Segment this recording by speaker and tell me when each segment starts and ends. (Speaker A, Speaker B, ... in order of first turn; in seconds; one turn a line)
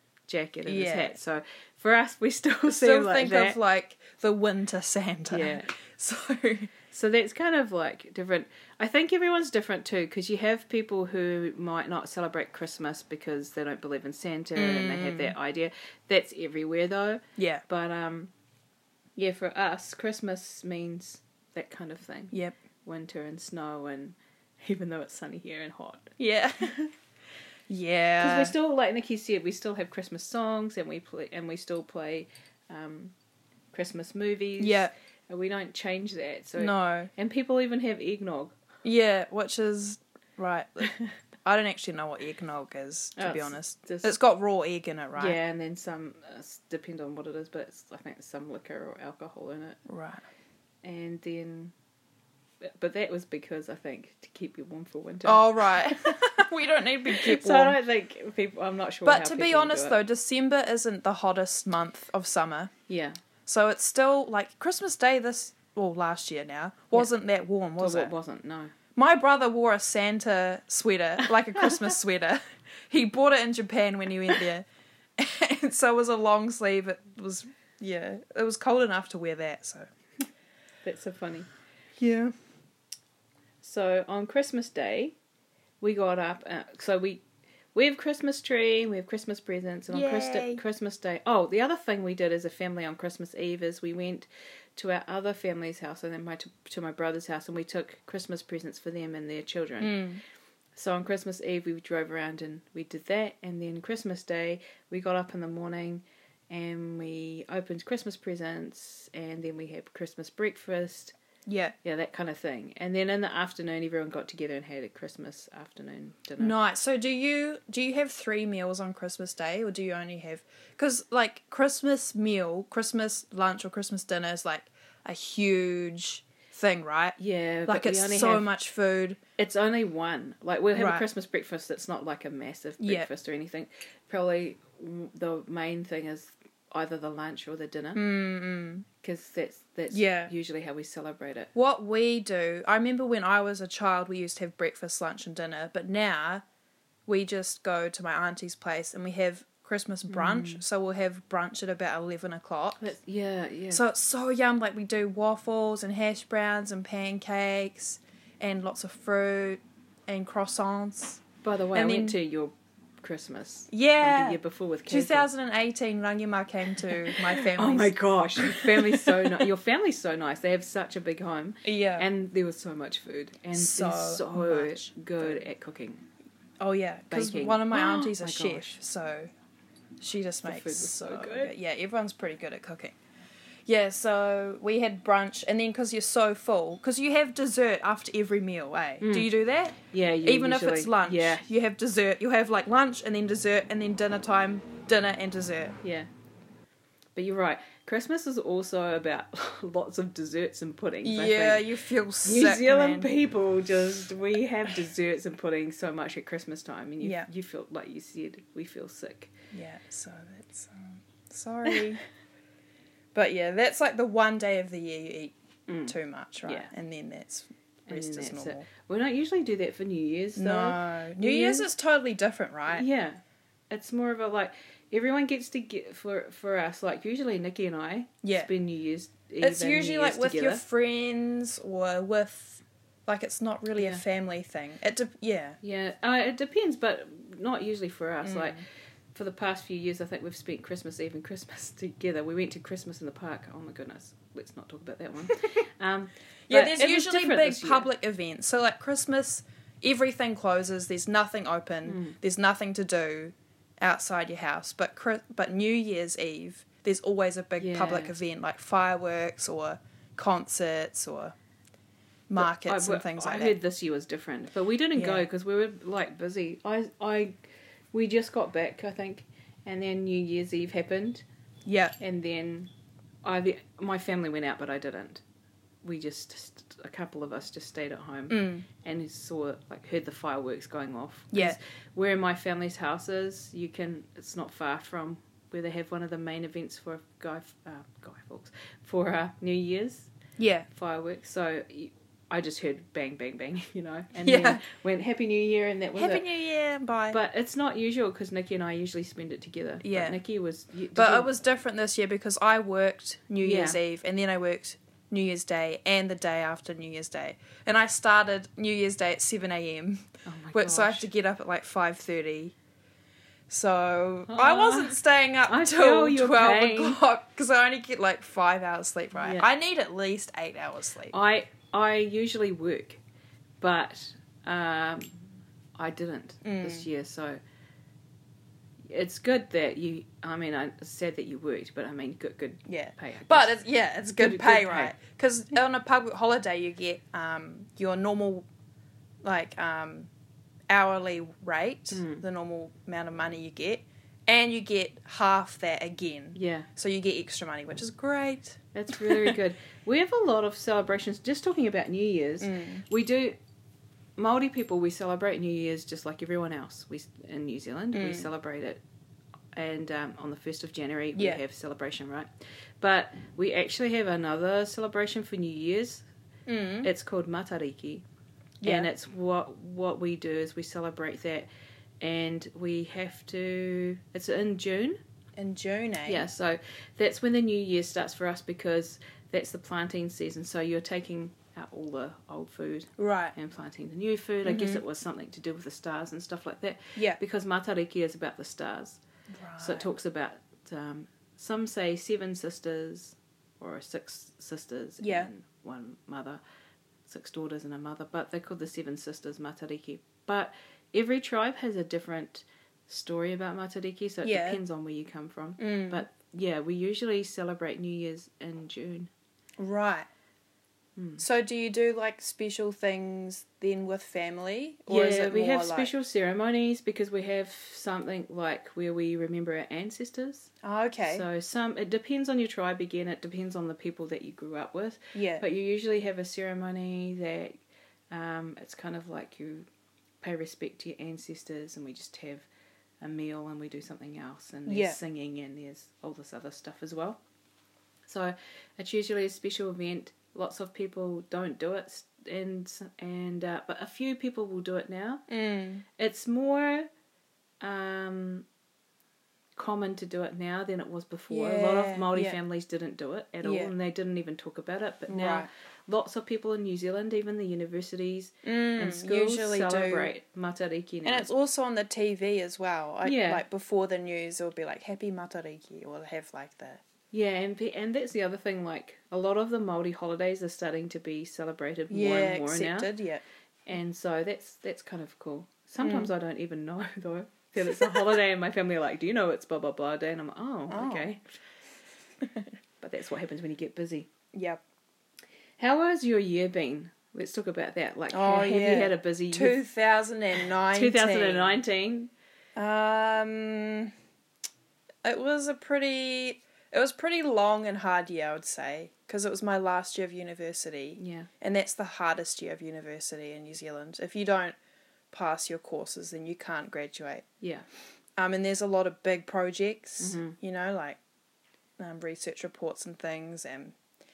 Speaker A: 0.3-3.6
Speaker B: 0.7-1.2
Speaker B: 2.7-6.7
Speaker A: 5.3-5.7
Speaker A: 6.9-18.3
Speaker B: 14.6-15.3
Speaker B: 17.4-17.6
Speaker A: 19.2-22.4
Speaker A: 22.9-26.1
Speaker B: 26.2-26.9
Speaker B: 27.7-28.5
Speaker A: 28.2-33.1
Speaker A: 33.7-38.5
Speaker B: 34.6-34.9
Speaker B: 36.6-37.1
Speaker B: 38.8-40.9
Speaker B: 41.5-45.4
Speaker A: 43.2-44.1
Speaker A: 45.1-49.8
Speaker B: 49.9-50.2
Speaker A: 50.8-51.7
Speaker A: 52.6-56.5
Speaker B: 55.2-57.8
Speaker A: 57.1-60.0
Speaker B: 59.0-62.7
Speaker A: 62.9-63.2
Speaker B: 63.5-68.1
Speaker A: 67.8-68.7
Speaker B: 69.0-74.7
Speaker B: 75.2-79.9
Speaker A: 80.8-81.5
Speaker B: 82.0-82.3
Speaker A: 83.6-85.2
Speaker A: 85.8-87.2
Speaker A: 87.8-100.0
Speaker B: 89.9-90.6
Speaker B: 99.8-100.2
Speaker A: 100.8-111.2
Speaker B: 111.5-111.8
Speaker A: 111.8-116.5
Speaker B: 116.4-129.2
Speaker A: 127.2-128.5
Speaker A: 129.4-138.0
Speaker B: 130.8-131.0
Speaker B: 132.8-133.1
Speaker B: 137.9-138.9
Speaker A: 139.0-141.5
Speaker B: 139.9-140.3
Speaker B: 141.5-146.4
Speaker B: 147.1-152.8
Speaker A: 150.1-150.6
Speaker A: 152.8-153.8
Speaker B: 153.7-161.2
Speaker A: 161.4-165.3
Speaker B: 161.7-162.2
Speaker B: 163.7-169.5
Speaker A: 166.8-176.0
Speaker B: 171.6-172.1
Speaker B: 173.5-175.4
Speaker B: 176.6-179.3
Speaker A: 177.1-178.8
Speaker B: 180.0-183.0
Speaker A: 180.4-181.5
Speaker B: 183.7-195.8
Speaker A: 189.0-189.3
Speaker A: 189.9-191.5
Speaker A: 195.8-196.1
Speaker A: 197.2-201.7
Speaker B: 201.0-203.1
Speaker A: 202.2-209.3
Speaker B: 207.0-207.3
Speaker B: 209.5-212.0
Speaker B: 213.1-215.3
Speaker A: 215.7-216.7
Speaker B: 215.9-218.7
Speaker A: 217.9-221.7
Speaker B: 220.4-222.8
Speaker A: 222.7-230.6
Speaker B: 228.2-228.5
Speaker B: 229.4-235.6
Speaker A: 233.8-234.0
Speaker A: 235.6-247.9
Speaker B: 238.2-238.6
Speaker B: 246.5-261.4
Speaker A: 251.9-252.2
Speaker A: 257.6-258.2
Speaker B: 262.3-263.6
Speaker A: 262.4-267.4
Speaker B: 264.9-265.3
Speaker A: 267.9-271.2
Speaker B: 271.7-272.0
Speaker A: 272.0-272.7
Speaker A: 273.2-275.2
Speaker A: 275.8-290.1
Speaker B: 278.3-278.6
Speaker B: 281.3-281.6
Speaker B: 290.4-290.7
Speaker A: 290.7-296.2
Speaker B: 294.2-294.6
Speaker B: 296.0-297.2
Speaker A: 297.1-301.4
Speaker B: 299.8-300.2
Speaker B: 300.9-312.6
Speaker A: 303.4-303.8
Speaker A: 310.2-311.1
Speaker B: 313.5-321.1
Speaker A: 314.3-317.0
Speaker A: 319.1-319.5
Speaker A: 321.1-323.0
Speaker A: 323.6-325.2
Speaker A: 325.8-327.4
Speaker B: 326.4-326.9
Speaker A: 328.9-333.5
Speaker B: 332.7-338.5
Speaker A: 334.2-334.9
Speaker B: 339.2-340.1
Speaker B: 340.7-349.4
Speaker A: 341.9-342.2
Speaker A: 346.4-346.7
Speaker A: 348.7-353.4
Speaker B: 352.4-352.8
Speaker A: 354.2-358.8
Speaker B: 357.9-358.3
Speaker A: 359.5-366.1
Speaker B: 366.5-366.9
Speaker A: 366.8-368.1
Speaker B: 368.6-368.9
Speaker A: 368.6-371.5
Speaker A: 372.0-375.0
Speaker B: 375.4-376.2
Speaker A: 376.1-389.0
Speaker B: 383.0-383.4
Speaker B: 384.4-384.8
Speaker B: 389.3-389.9
Speaker A: 389.6-396.4
Speaker B: 395.0-395.3
Speaker A: 397.1-409.1
Speaker B: 404.2-404.6
Speaker B: 405.6-406.1
Speaker B: 409.6-410.1
Speaker A: 411.0-411.2
Speaker B: 411.2-415.9
Speaker A: 414.9-427.6
Speaker B: 420.6-421.2
Speaker B: 425.1-425.4
Speaker A: 428.1-429.7
Speaker A: 430.2-432.5
Speaker A: 433.0-437.2
Speaker B: 434.7-435.0
Speaker A: 438.1-445.2
Speaker B: 445.3-445.8
Speaker A: 446.0-446.9
Speaker A: 447.6-448.5
Speaker A: 449.6-461.3
Speaker B: 451.3-452.4
Speaker B: 453.4-453.7
Speaker B: 455.1-455.5
Speaker B: 458.4-460.1
Speaker B: 461.1-466.8
Speaker A: 463.0-463.4
Speaker A: 467.1-472.9
Speaker B: 471.9-473.2
Speaker A: 473.7-481.3
Speaker B: 475.8-476.1
Speaker B: 477.7-478.1
Speaker B: 480.7-481.1
Speaker B: 482.2-482.5
Speaker A: 482.8-484.1
Speaker B: 484.3-484.6
Speaker A: 485.6-489.6
Speaker B: 488.1-491.6
Speaker A: 490.7-492.1
Speaker B: 492.6-493.9
Speaker B: 495.0-504.6
Speaker A: 501.0-501.3
Speaker B: 505.1-507.2
Speaker A: 507.4-507.7
Speaker B: 508.2-511.0
Speaker A: 510.0-510.4
Speaker B: 511.8-513.8